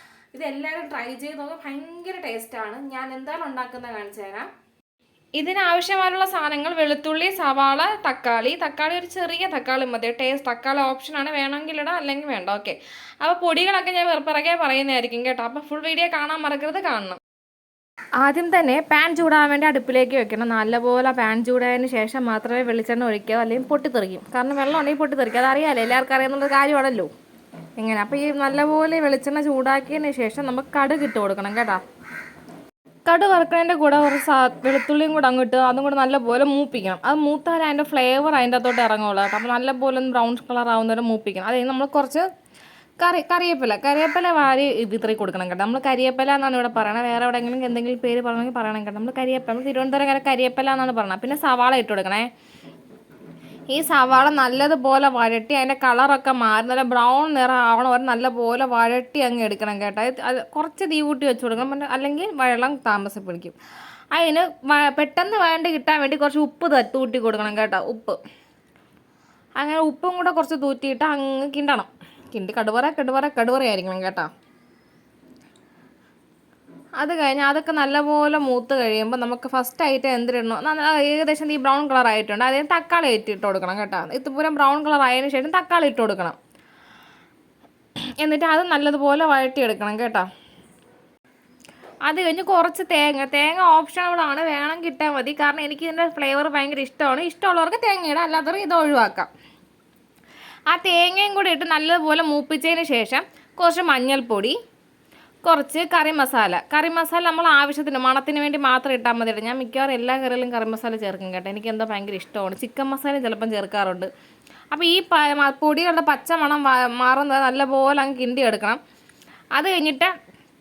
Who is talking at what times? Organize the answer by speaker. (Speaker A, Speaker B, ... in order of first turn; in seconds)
Speaker A: 0.3-4.5, 5.3-17.2, 18.2-27.1, 27.8-31.8, 33.0-42.3, 43.0-52.3, 53.7-63.5, 64.1-68.2, 69.6-74.3, 77.0-86.4, 88.2-90.3, 92.0-99.3, 100.7-104.6, 105.4-114.1, 114.7-118.8, 119.5-120.1